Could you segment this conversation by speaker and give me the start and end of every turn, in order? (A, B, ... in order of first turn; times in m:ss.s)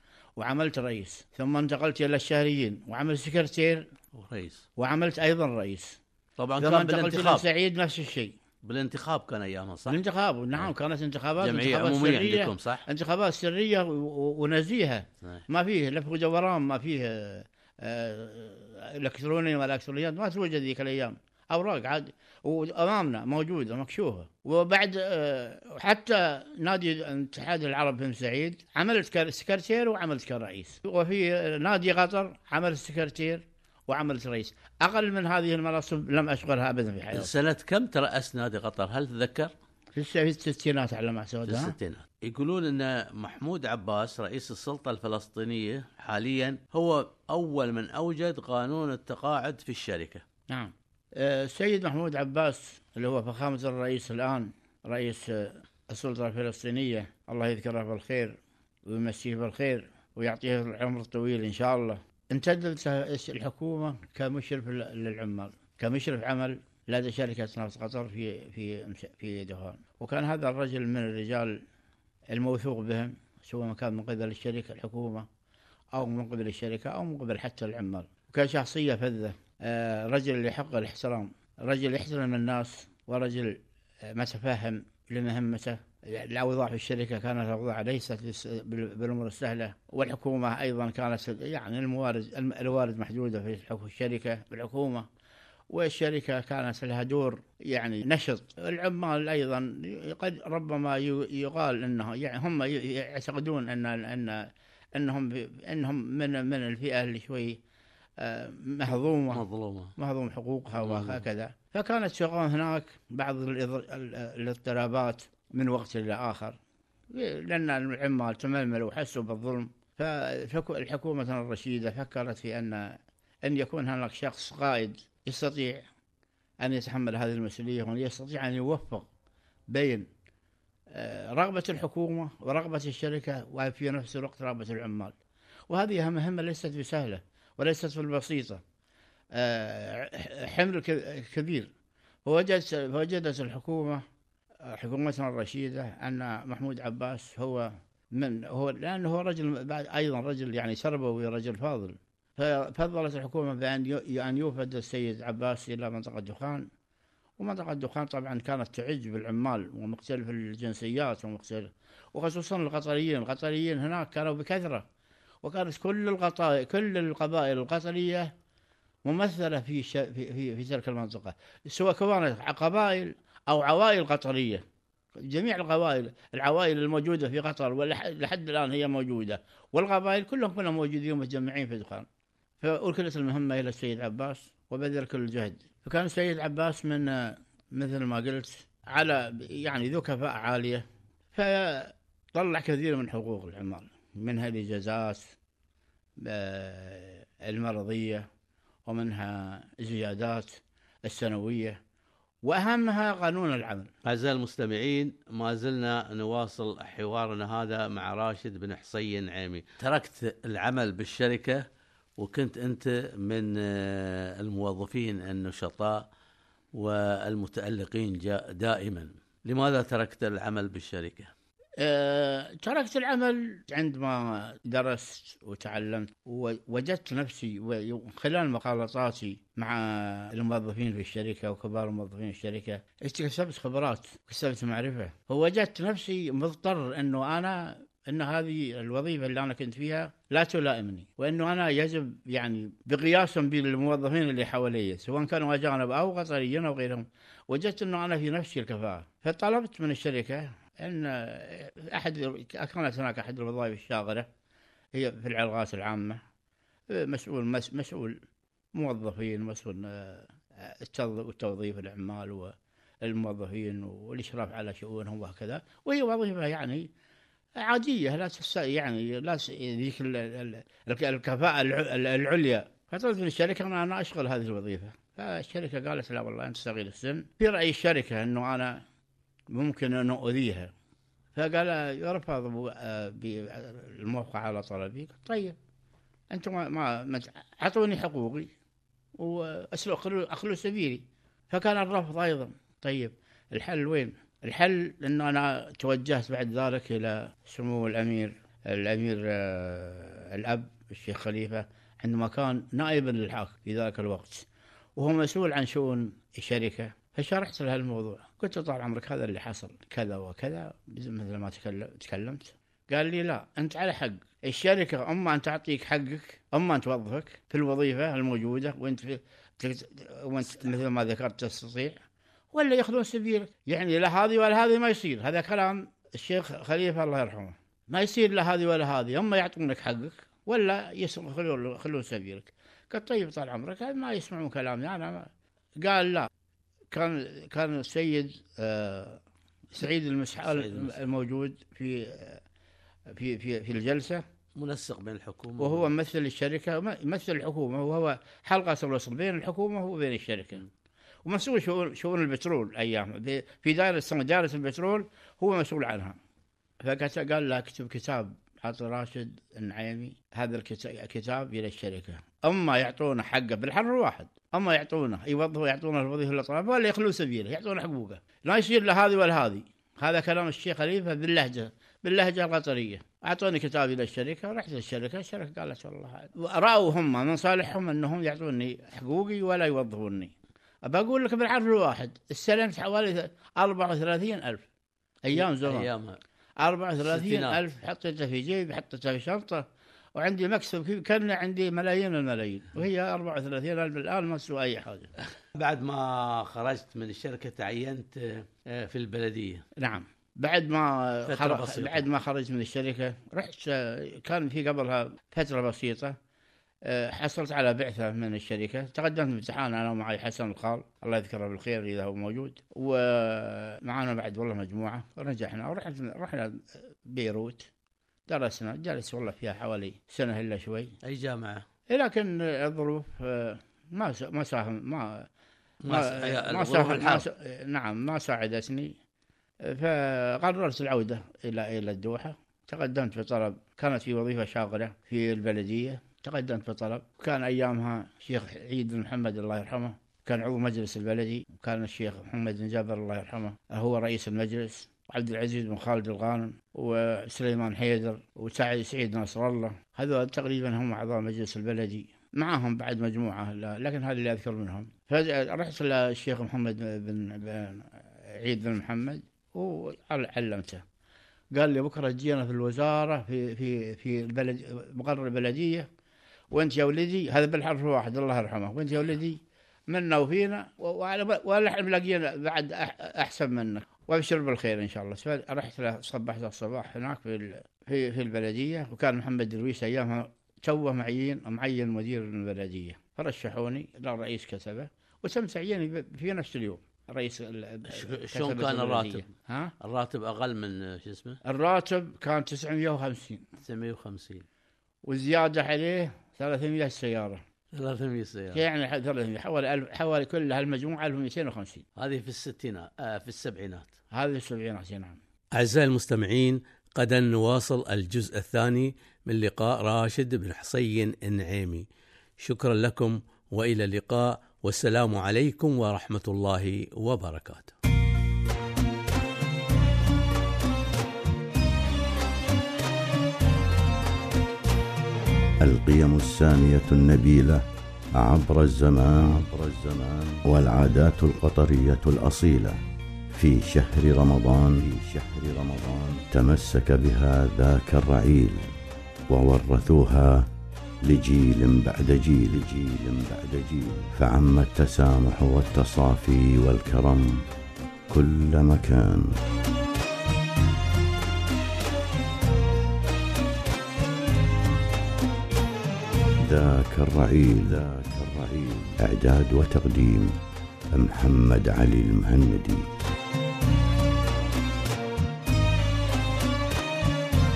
0:00.4-0:03.8 A
0:04.1-0:04.6 B
0:04.8-0:06.0 A
0:06.4-0:07.4 B
0:06.6-0:08.3 A
0:08.6-0:10.0 B
0:09.9-0:37.3 A
0:11.4-0:12.8 B
0:37.1-0:39.5 B
0:39.9-0:41.7 A
0:41.4-0:50.2 B
0:50.5-1:11.6 A
1:12.3-1:15.3 A
1:15.9-1:35.0 A
1:35.7-1:47.6 A
1:48.2-1:49.4 A
1:49.3-1:49.9 B
1:50.0-1:56.6 A
1:50.7-1:51.2 B
1:57.1-2:05.8 A
2:06.6-2:09.1 A
2:09.7-2:10.1 A
2:10.9-2:15.1 A
2:15.7-2:18.6 A
2:19.3-2:21.7 A
2:22.2-2:24.0 A
2:24.6-2:36.7 A
2:37.4-2:44.8 A
2:45.4-2:48.3 A
2:49.0-2:54.6 A
2:55.2-3:02.1 A
3:02.6-3:15.3 A
3:16.2-3:18.2 A
3:18.8-3:21.8 A
3:22.4-3:23.9 A
3:24.0-3:31.6 B
3:32.2-3:36.1 B
3:36.7-3:41.3 B
3:41.8-4:14.3 A
4:14.9-4:16.2 A
4:16.9-4:18.2 A
4:18.7-4:26.9 A
4:27.6-4:38.8 A
4:39.5-4:40.7 A
4:41.3-4:45.6 A
4:46.3-4:48.5 A
4:49.2-5:22.0 A
5:22.5-5:36.3 A
5:36.9-5:39.2 A
5:39.7-5:42.4 A
5:40.4-5:41.0 B
5:43.1-5:44.2 A
5:44.6-5:45.9 B
5:45.6-5:50.7 A
5:51.2-5:56.2 A
5:56.8-6:20.3 A
6:20.8-6:24.6 A
6:25.2-6:25.9 A
6:25.3-6:26.2 B
6:26.6-6:35.1 A
6:27.0-6:27.6 B
6:35.5-6:39.6 B
6:39.8-6:46.1 A
6:41.3-6:42.0 B
6:46.8-6:57.7 A
6:58.3-7:00.9 A
7:01.0-7:01.6 B
7:01.9-7:05.3 A
7:05.8-7:07.3 B
7:05.9-7:08.9 A
7:09.6-7:40.8 A
7:41.5-7:45.9 A
7:46.5-8:09.7 A
8:07.9-8:09.3 B
8:09.8-8:11.4 B
8:11.4-8:13.5 A
8:13.6-8:14.4 B
8:15.0-8:17.4 A
8:17.7-8:18.6 B
8:18.5-8:21.8 A
8:22.0-8:23.9 B
8:24.1-8:25.2 A
8:25.5-8:31.9 B
8:32.4-8:37.7 B
8:45.6-8:47.6 C
8:48.2-8:52.8 C
8:53.3-8:58.7 C
8:59.3-9:00.5 C
9:01.0-9:07.4 C
9:08.1-9:09.4 C
9:16.4-9:20.4 C
9:20.9-9:22.9 C